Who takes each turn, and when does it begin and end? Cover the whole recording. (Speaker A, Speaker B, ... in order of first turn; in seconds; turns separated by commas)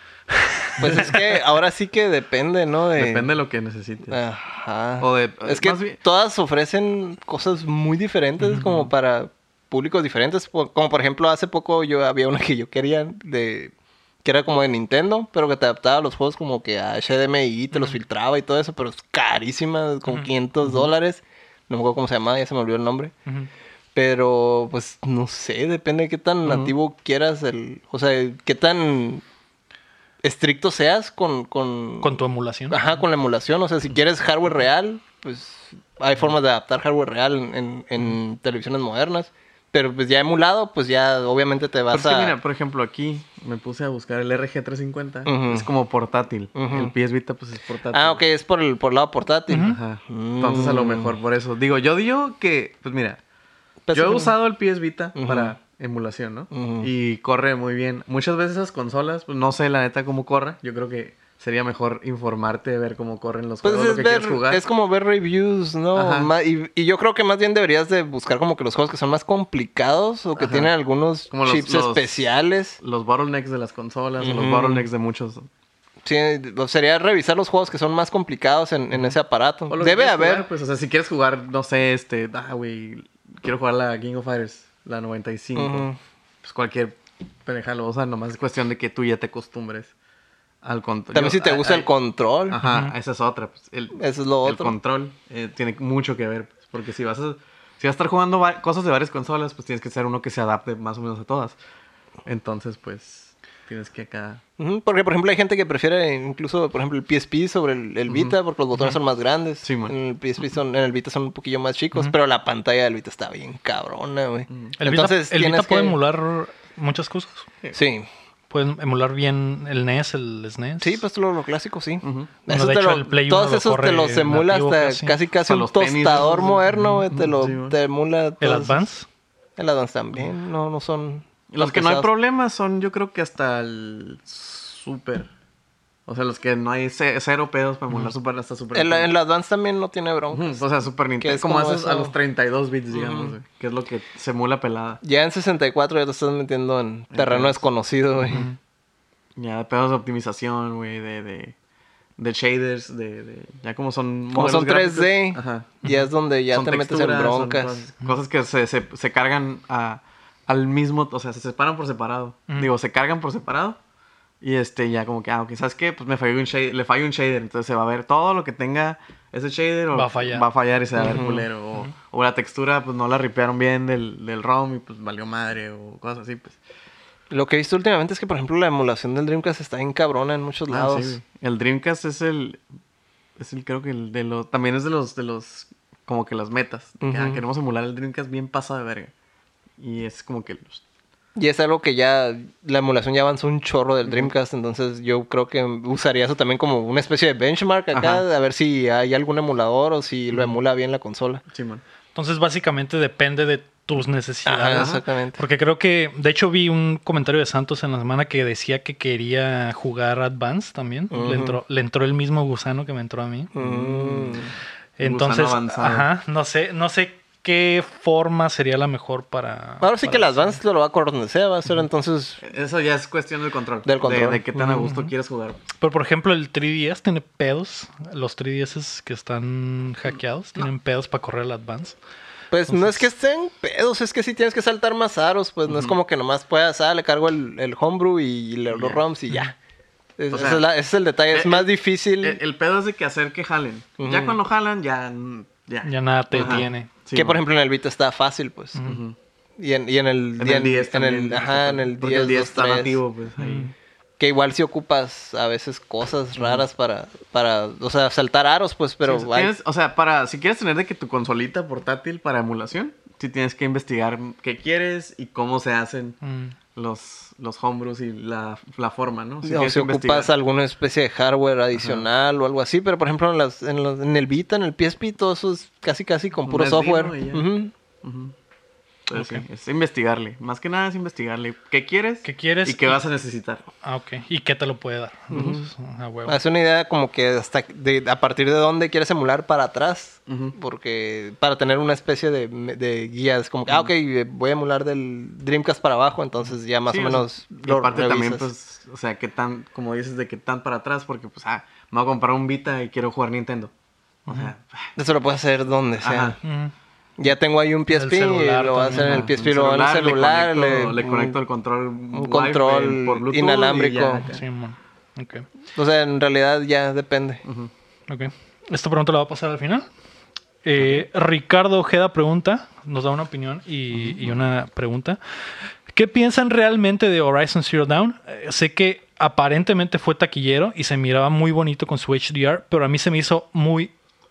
Speaker A: 0.3-1.2, Speaker B: 0.8-3.3, Speaker C: 3.0-4.2, Speaker B: 4.1-13.7, Speaker C: 5.0-6.0, Speaker C: 8.6-8.9, Speaker B: 14.2-23.1, Speaker C: 20.6-20.9, Speaker B: 23.9-29.2, Speaker C: 26.4-26.7, Speaker B: 30.2-32.1, Speaker A: 32.0-32.8, Speaker B: 32.7-42.4, Speaker C: 41.9-48.2, Speaker B: 45.3-45.7, Speaker B: 46.5-46.9, Speaker B: 47.9-51.1, Speaker A: 49.5-49.8, Speaker C: 49.6-53.2, Speaker B: 53.9-54.4, Speaker C: 53.9-64.6, Speaker B: 55.1-55.5, Speaker B: 56.5-56.9, Speaker B: 63.6-72.8, Speaker C: 65.9-66.3, Speaker C: 70.4-70.7, Speaker C: 71.3-72.2, Speaker C: 72.8-75.5, Speaker B: 74.2-74.9, Speaker B: 76.0-80.5, Speaker C: 79.7-85.9, Speaker B: 85.6-86.0, Speaker C: 86.4-89.9, Speaker C: 90.6-91.9, Speaker B: 91.1-92.6, Speaker C: 92.5-101.6, Speaker A: 92.6-92.9, Speaker B: 94.0-94.8, Speaker C: 102.2-104.4, Speaker B: 104.6-116.0, Speaker C: 108.1-108.4, Speaker C: 109.6-110.0, Speaker A: 114.8-117.5, Speaker B: 117.7-118.1, Speaker A: 118.5-121.0, Speaker B: 120.8-128.8, Speaker C: 122.0-122.3, Speaker A: 122.5-125.2, Speaker C: 125.5-127.8, Speaker A: 128.4-129.1, Speaker B: 129.6-132.1, Speaker C: 131.5-135.3, Speaker C: 136.1-139.1, Speaker B: 138.7-140.6, Speaker C: 140.3-145.0, Speaker B: 141.2-142.2, Speaker B: 142.9-143.3, Speaker B: 145.0-148.5, Speaker C: 147.1-147.7, Speaker C: 148.2-148.5, Speaker C: 149.4-151.6, Speaker C: 152.2-155.8, Speaker B: 154.3-157.8, Speaker C: 156.5-163.8, Speaker C: 164.4-176.6, Speaker A: 169.9-170.5, Speaker B: 171.0-171.5, Speaker B: 177.3-181.2, Speaker C: 180.7-182.6, Speaker C: 183.4-189.1, Speaker B: 187.0-187.4, Speaker C: 189.8-190.8, Speaker B: 191.4-201.4, Speaker C: 197.9-198.2, Speaker C: 201.5-201.8, Speaker A: 202.2-213.5, Speaker B: 204.4-205.4, Speaker C: 204.7-205.0, Speaker B: 211.1-211.6, Speaker B: 213.5-214.5, Speaker C: 213.6-216.1, Speaker A: 215.0-220.6, Speaker B: 219.8-222.4, Speaker C: 222.4-225.6, Speaker B: 223.8-224.4, Speaker A: 224.6-225.1, Speaker A: 225.8-232.0, Speaker B: 232.5-239.5, Speaker A: 232.7-233.0, Speaker C: 235.7-236.0, Speaker C: 238.7-239.0, Speaker B: 240.2-242.4, Speaker C: 240.3-240.6, Speaker C: 241.3-247.4, Speaker B: 244.0-244.4, Speaker A: 245.8-246.9, Speaker B: 246.4-248.8, Speaker A: 248.8-249.0, Speaker C: 248.8-249.2, Speaker B: 249.6-253.0, Speaker C: 250.4-253.7, Speaker A: 253.4-253.7, Speaker B: 254.2-259.5, Speaker C: 256.4-256.6, Speaker C: 259.0-266.2, Speaker A: 266.2-266.6, Speaker C: 266.8-270.3, Speaker B: 269.4-277.7, Speaker C: 271.8-272.1, Speaker C: 276.5-277.5, Speaker C: 278.0-278.4, Speaker C: 279.1-283.6, Speaker A: 279.1-279.4, Speaker A: 282.2-283.0, Speaker A: 283.8-286.4, Speaker B: 285.3-285.7, Speaker B: 286.3-298.5, Speaker C: 290.3-290.6, Speaker C: 296.9-303.7, Speaker A: 304.3-304.5, Speaker C: 304.3-304.9, Speaker B: 305.0-306.4, Speaker C: 306.0-306.4, Speaker A: 306.4-306.7, Speaker B: 307.2-311.4, Speaker A: 307.9-309.3, Speaker C: 309.0-314.4, Speaker B: 312.1-314.3, Speaker A: 314.3-315.5, Speaker B: 315.8-317.4, Speaker C: 317.4-317.7, Speaker A: 318.1-319.9, Speaker A: 320.6-325.2, Speaker C: 323.9-324.4, Speaker A: 325.9-333.9